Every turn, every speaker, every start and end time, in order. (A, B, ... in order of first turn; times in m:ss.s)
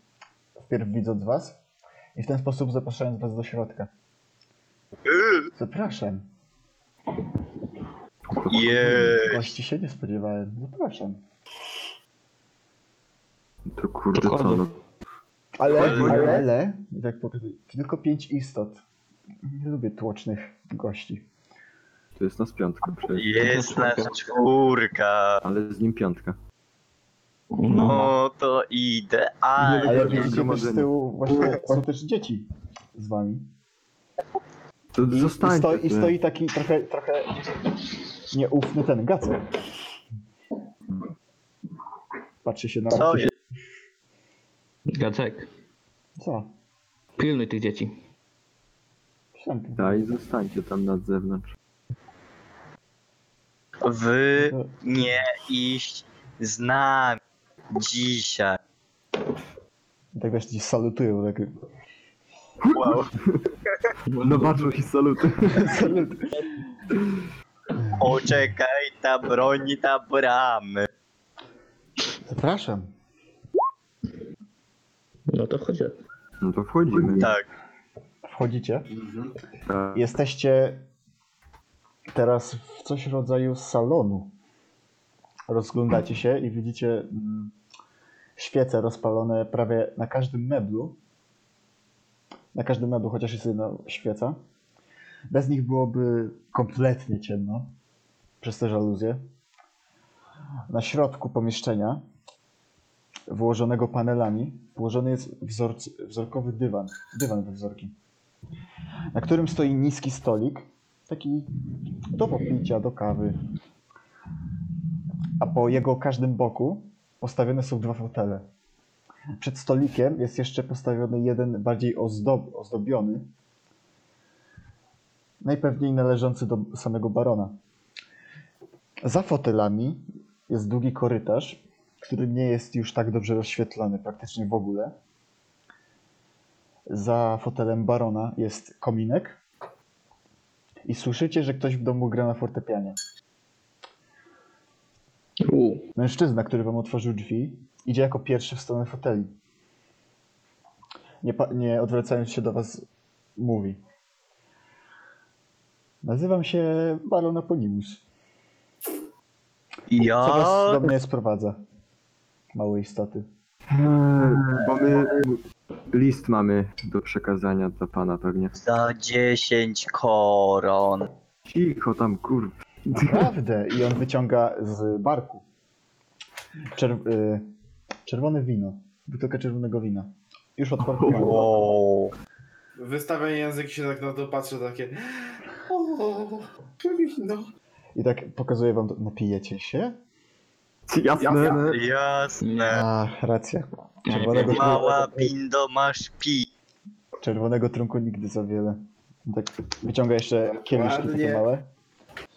0:00.6-0:01.6 A
0:02.2-0:03.9 A
0:05.0-0:05.5 B
0:05.5-0:06.2 A
0:08.3-0:09.2 C
0:08.5-0:09.5 B
0:09.2-0:11.2 A
0:13.7-0:14.8 C
0:14.1-0:14.7 D
0:15.6-0:18.8 A
0:15.7-0:16.4 B
0:15.7-0:16.4 C
0:19.4-0:21.2 A
0:22.2-0:23.4 C
0:23.1-0:25.4 B
0:23.4-0:24.2 D
0:25.4-0:26.4 C
0:27.5-0:28.2 D
0:27.7-0:30.3 B
0:27.8-0:28.0 C
0:29.6-0:30.9 C
0:29.8-0:33.5 A
0:34.9-0:36.1 C
0:35.0-0:37.4 A
0:38.3-0:39.4 A
0:42.4-0:43.3 A
0:42.9-0:43.3 B
0:44.9-0:45.5 D
0:46.2-0:46.5 A
0:47.2-0:48.0 D
0:49.3-0:50.1 A
0:49.8-0:51.5 C
0:53.8-0:57.2 B
0:54.4-0:54.7 A
0:57.7-0:58.6 B
1:00.1-1:01.5 A
1:02.6-1:03.4 C
1:02.7-1:03.1 B
1:04.0-1:04.7 D
1:04.2-1:05.8 C
1:05.5-1:06.4 A
1:07.8-1:08.1 A
1:08.0-1:10.9 B
1:12.2-1:12.9 A
1:15.3-1:16.0 D
1:16.4-1:17.3 C
1:17.1-1:17.4 B
1:18.2-1:18.9 A
1:19.0-1:19.3 E
1:19.7-1:20.1 C
1:19.9-1:20.8 A
1:22.1-1:24.3 A
1:25.5-1:27.5 A
1:28.4-1:31.0 A
1:32.5-1:34.4 A
1:35.3-1:37.7 A
1:38.4-1:39.2 A
1:40.7-1:42.0 A
1:43.3-1:47.9 A
1:49.1-1:51.5 A
1:52.1-1:53.4 A
1:55.4-1:58.4 A
1:59.4-2:03.3 A
2:05.4-2:07.5 A
2:09.0-2:14.9 A
2:16.9-2:19.4 A
2:20.8-2:23.0 A
2:25.4-2:25.8 D
2:26.0-2:29.3 A
2:31.2-2:33.8 A
2:36.0-2:38.0 A
2:39.9-2:40.9 B
2:40.2-2:41.6 A
2:42.5-2:43.2 A
2:43.7-2:48.5 C
2:48.6-2:51.1 B
2:51.4-2:53.3 C
2:52.9-2:55.4 A
2:56.7-2:57.5 A
2:58.1-3:01.5 A
3:00.9-3:01.4 C
3:01.1-3:02.1 B
3:02.8-3:07.5 E
3:07.9-3:10.0 A
3:10.9-3:11.8 C
3:11.2-3:11.6 E
3:11.4-3:12.8 B
3:12.4-3:12.8 D
3:12.7-3:15.3 A
3:14.0-3:14.9 D
3:14.4-3:16.5 B
3:17.2-3:21.7 A
3:20.6-3:21.4 E